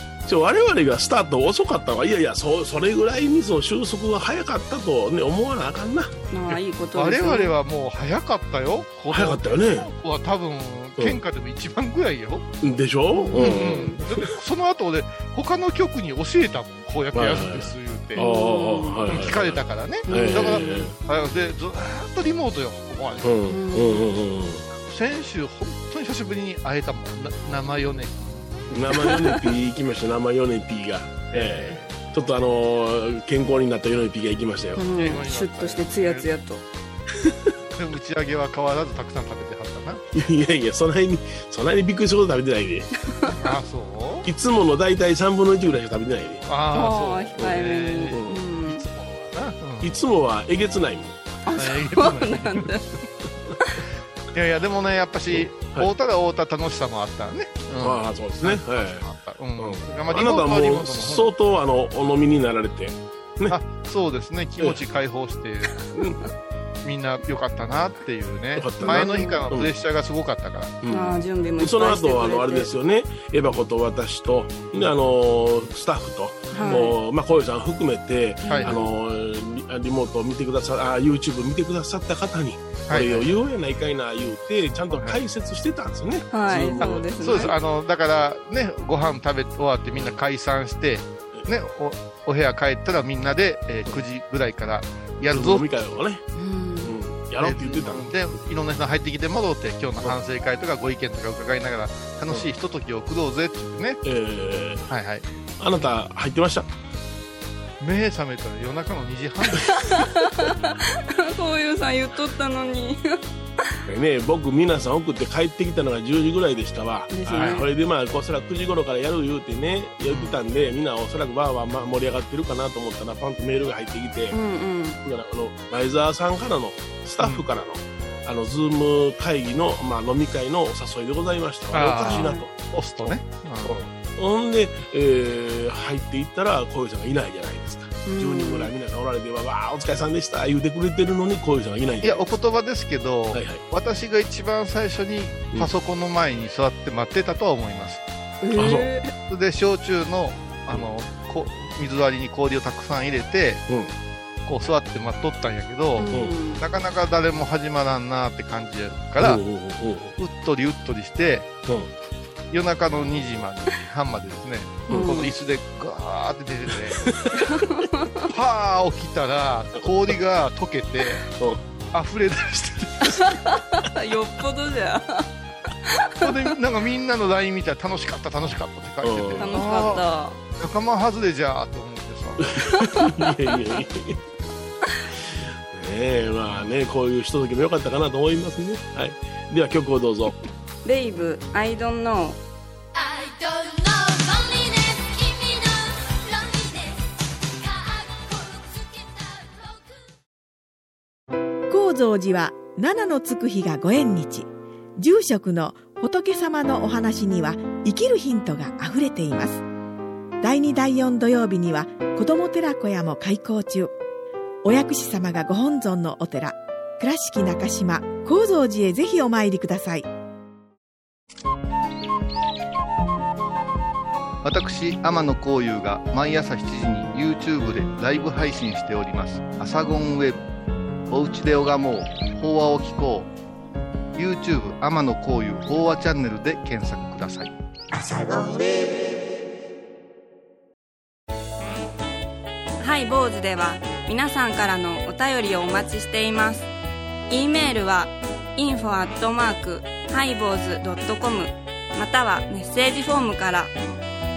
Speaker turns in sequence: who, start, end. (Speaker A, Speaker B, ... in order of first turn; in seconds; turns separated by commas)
Speaker A: 0.3-6.1, Speaker B: 6.3-7.5, Speaker C: 7.0-12.5, Speaker A: 9.1-9.9, Speaker A: 12.6-14.3, Speaker B: 13.1-14.0, Speaker C: 13.3-18.2, Speaker A: 17.1-20.9, Speaker B: 18.2-19.1, Speaker C: 19.1-23.4, Speaker B: 20.1-20.8, Speaker A: 23.2-24.6, Speaker B: 23.5-24.0, Speaker C: 24.8-28.5, Speaker A: 28.7-34.9, Speaker B: 29.0-29.4, Speaker C: 31.3-32.3, Speaker B: 34.8-36.6, Speaker C: 34.9-36.3, Speaker A: 37.2-37.5, Speaker C: 37.8-40.0, Speaker A: 40.1-42.9, Speaker C: 43.4-44.3, Speaker A: 44.3-46.5, Speaker C: 46.5-50.0, Speaker B: 46.7-48.8, Speaker A: 48.1-48.4, Speaker A: 49.8-51.2, Speaker B: 51.5-52.9, Speaker C: 51.6-52.7, Speaker C: 54.3-61.3, Speaker A: 55.3-55.9, Speaker A: 57.8-59.1, Speaker A: 59.6-63.6, Speaker C: 63.5-66.0, Speaker C: 66.8-70.8, Speaker A: 68.6-69.7, Speaker B: 68.8-69.4, Speaker A: 70.8-87.5, Speaker B: 70.9-72.7, Speaker B: 76.5-77.0, Speaker B: 78.5-78.8, Speaker C: 78.5-78.8, Speaker C: 82.9-83.3, Speaker C: 84.9-85.2, Speaker B: 86.3-87.5, Speaker C: 86.8-95.7, Speaker A: 95.3-96.2, Speaker B: 96.4-96.9, Speaker A: 96.8-98.2, Speaker C: 97.4-104.0, Speaker A: 104.0-104.9, Speaker C: 104.9-105.3, Speaker A: 105.6-106.7, Speaker C: 107.8-109.8, Speaker B: 109.7-113.2, Speaker A: 113.9-124.4, Speaker B: 117.1-117.6, Speaker C: 120.1-120.4, Speaker B: 124.3-125.0, Speaker A: 125.0-132.5, Speaker C: 127.2-127.5, Speaker C: 131.7-133.8, Speaker B: 132.0-132.4, Speaker A: 133.6-142.2, Speaker B: 138.1-138.7, Speaker C: 142.0-148.0, Speaker A: 143.3-143.6, Speaker B: 148.4-149.1, Speaker A: 148.6-148.9, Speaker C: 149.3-153.6, Speaker C: 154.5-159.4, Speaker B: 156.0-156.6, Speaker A: 159.2-160.2, Speaker C: 160.2-161.5, Speaker C: 162.5-167.2, Speaker A: 164.9-165.1, Speaker B: 164.9-165.3, Speaker A: 167.0-167.4, Speaker B: 167.3-168.3, Speaker C: 168.3-171.3, Speaker C: 171.9-173.3, Speaker B: 173.1-175.3, Speaker B: 175.9-176.5, Speaker C: 176.2-182.5, Speaker A: 179.0-179.6, Speaker B: 179.4-180.4, Speaker A: 182.4-184.2, Speaker B: 183.0-183.2, Speaker A: 185.3-190.4, Speaker B: 190.8-192.4, Speaker D: 193.0-197.0, Speaker D: 197.6-199.9, Speaker E: 201.7-209.6, Speaker E: 210.4-213.9, Speaker E: 214.6-220.1, Speaker C: 224.4-230.4, Speaker C: 231.1-233.3, Speaker C: 234.2-237.5, Speaker B: 242.8-246.7, Speaker B: 247.3-253.7